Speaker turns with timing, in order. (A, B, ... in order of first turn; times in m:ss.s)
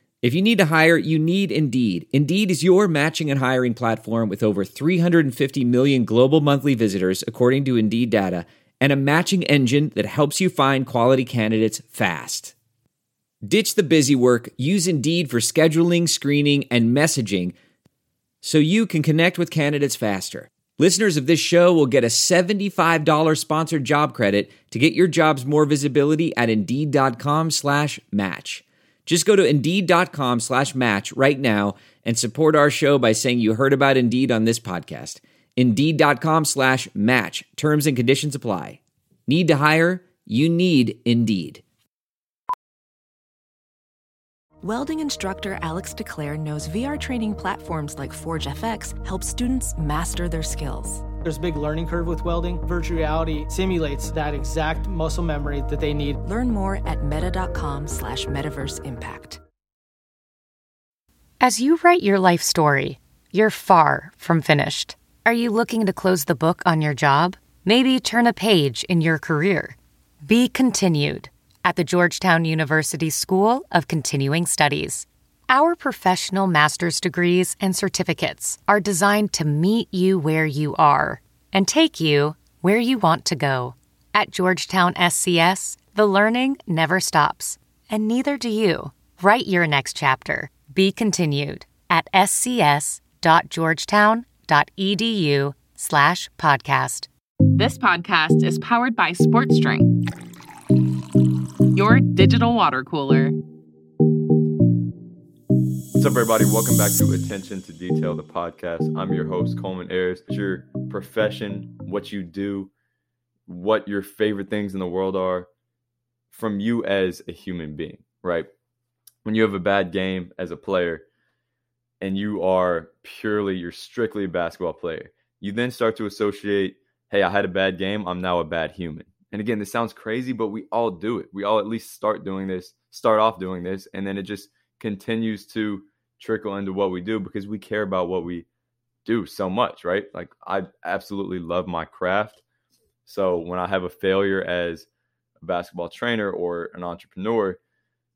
0:00.2-0:12.5 A
0:13.4-0:17.5 A
0:18.4-0:41.6 A
0:44.6-0:51.0 B
0:51.2-0:56.2 C
0:56.2-0:59.4 B
1:01.4-1:37.1 D
1:37.6-1:39.8 E
1:41.7-1:43.3 E
1:46.0-1:52.7 F
1:53.5-1:55.5 F
1:56.3-1:58.5 F
1:59.2-2:01.0 F
2:02.0-2:18.5 F
2:19.0-2:22.4 F
2:23.0-2:24.9 F
2:25.4-2:27.6 F